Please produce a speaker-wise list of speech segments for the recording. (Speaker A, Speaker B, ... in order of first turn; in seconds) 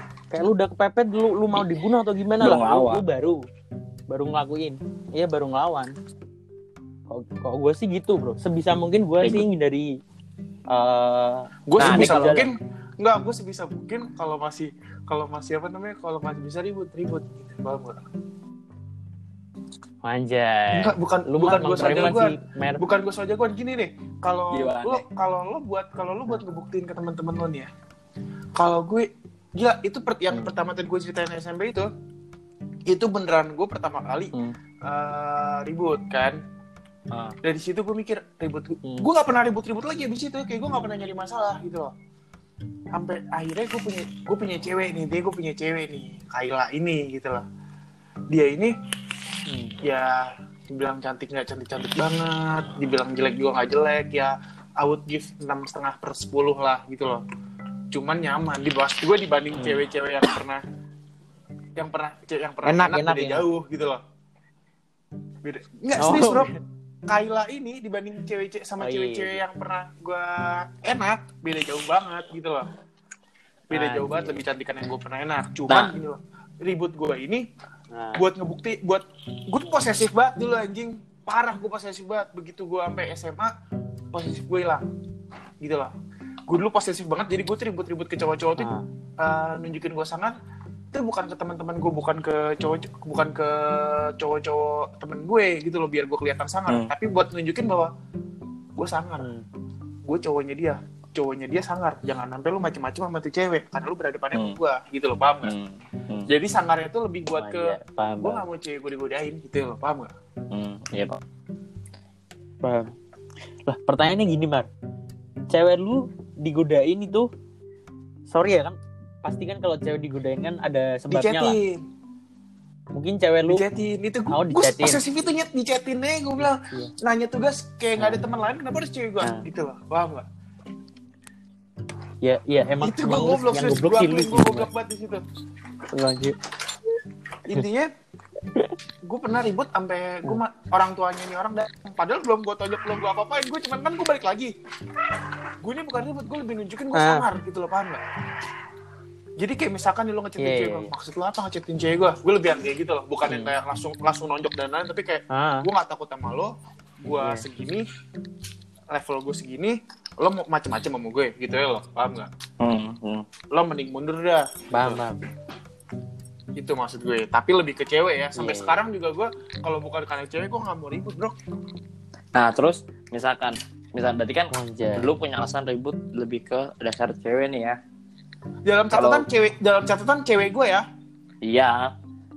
Speaker A: 0.3-3.4, 4.1-6.0, 7.1-9.9, 10.7-12.4, 20.0-22.8, 49.5-49.8, 62.6-63.5, 66.0-66.5, 68.8-69.4, 73.7-74.4, 77.9-78.2, 88.6-88.8, 99.2-99.5, 107.4-108.5, 112.6-112.9, 113.7-114.7, 115.5-117.3, 118.3-121.6, 123.0-123.6, 124.3-125.0, 126.5-126.9, 132.2-134.7, 135.9-136.4, 146.9-147.2, 150.4-150.9, 153.3-153.6, 155.3-155.7, 157.2-157.4, 164.7-165.2, 168.3-168.8, 174.5-175.1
Speaker B: 2.4-3.0, 11.8-12.5, 24.5-25.0, 37.1-37.4, 75.7-75.9, 105.4-106.3, 110.5-111.2, 162.6-163.3, 172.3-177.8, 178.9-179.3, 181.4-181.9
Speaker C: 11.7-18.0, 20.7-27.7, 28.6-31.9, 32.9-34.3, 34.9-36.4, 37.4-41.9, 42.9-47.5, 48.3-48.7, 49.8-57.2, 57.9-60.6, 61.8-64.0, 65.4-66.5, 67.1-72.7, 73.7-77.5, 78.2-83.5, 84.1-84.9, 85.6-85.9, 86.5-90.4, 90.9-97.9, 98.8-99.3, 100.1-105.5, 106.3-110.1, 121.1-121.8, 123.5-130.3, 132.8-135.2, 137.4-137.9, 139.1-144.5, 145.6-148.0, 149.4-156.5, 157.0-157.9, 158.9-162.3, 163.5-165.0, 166.6-171.4, 178.7-180.8